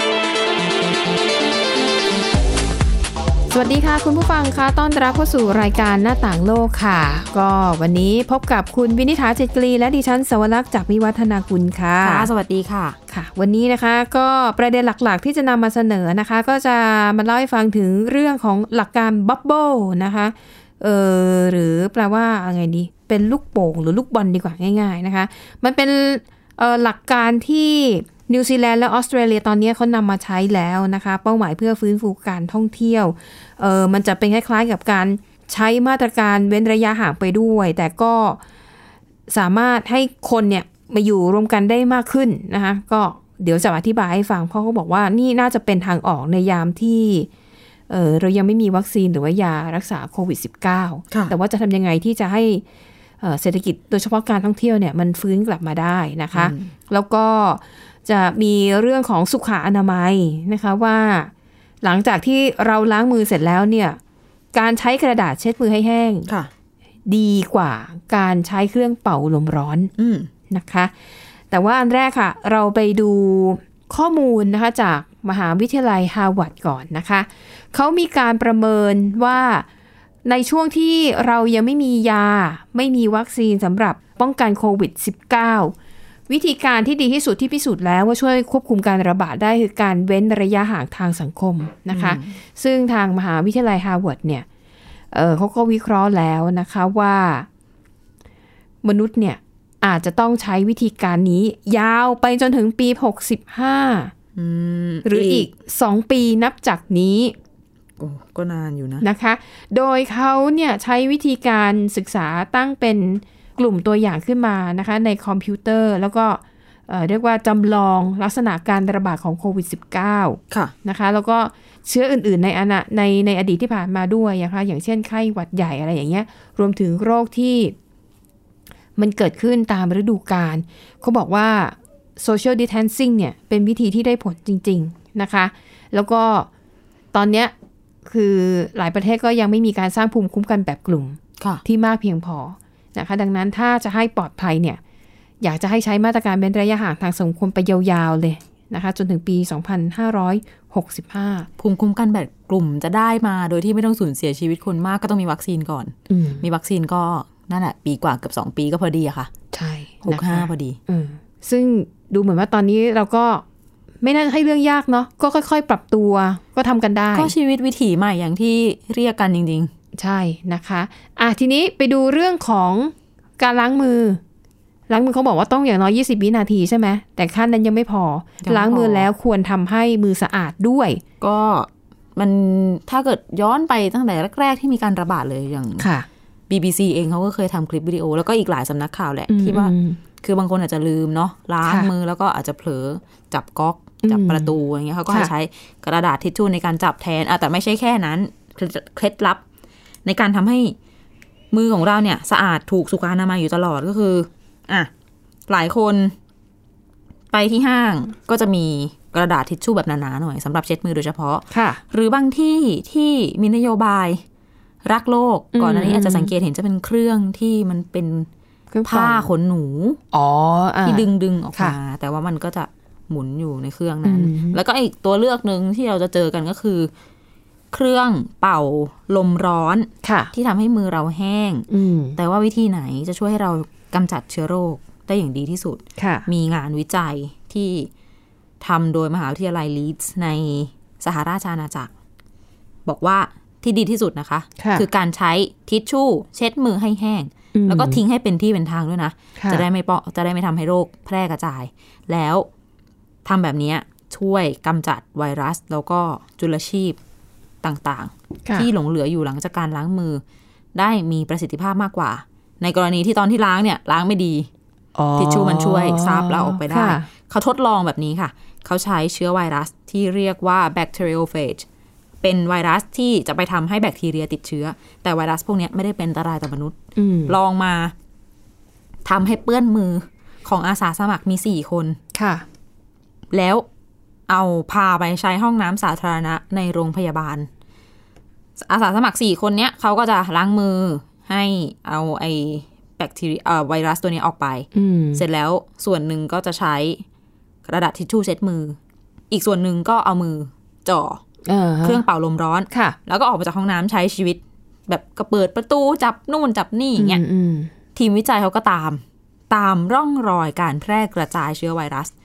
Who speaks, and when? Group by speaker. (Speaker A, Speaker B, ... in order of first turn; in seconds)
Speaker A: 3.5-12.3, 13.1-38.4, 39.3-47.3, 47.9-52.6, 53.2-61.3, 61.8-64.0, 64.5-66.3, 67.1-69.9, 70.5-70.9, 71.5-79.7, 80.2-85.7, 86.3-94.4, 95.1-97.5, 98.8-104.1, 105.0-107.3, 109.0-127.7, 128.9-136.5, 137.1-137.5, 138.1-144.8, 145.4-151.5, 156.1-156.4, 159.5-163.4, 164.0-167.3, 169.9-174.2, 174.9-181.0, 185.8-186.1, 189.3-190.0, 191.6-191.9, 194.0-194.5, 211.5-211.8, 215.5-216.3, 218.7-219.3, 220.1-221.8, 224.0-224.6, 230.0-230.3, 231.7-232.2, 236.0-236.3, 244.6-244.8, 247.5-248.0, 249.4-249.6, 264.9-267.1, 276.9-277.4, 282.1-282.4, 294.7-295.2, 301.4-302.0, 302.7-302.9, 307.0-307.7
Speaker B: 12.0-13.0, 56.3-56.7, 70.0-70.3, 91.9-92.4, 104.3-105.5, 108.0-109.0, 151.6-159.3, 160.0-160.8, 167.1-169.7, 178.4-179.1, 181.2-185.9, 186.5-199.4, 200.0-200.8, 201.5-204.9, 205.5-206.1, 207.3-214.2, 214.8-218.3, 218.8-220.0, 220.8-226.9, 227.7-237.9, 238.6-241.9, 242.8-252.5, 253.2-257.0, 257.6-260.2, 260.7-264.5, 265.2-271.6, 272.2-276.8, 277.3-277.9, 279.0-282.0, 283.3-283.6, 284.3-287.5, 288.6-297.0, 297.6-298.8, 299.3-301.2, 301.8-307.2, 307.9-312.1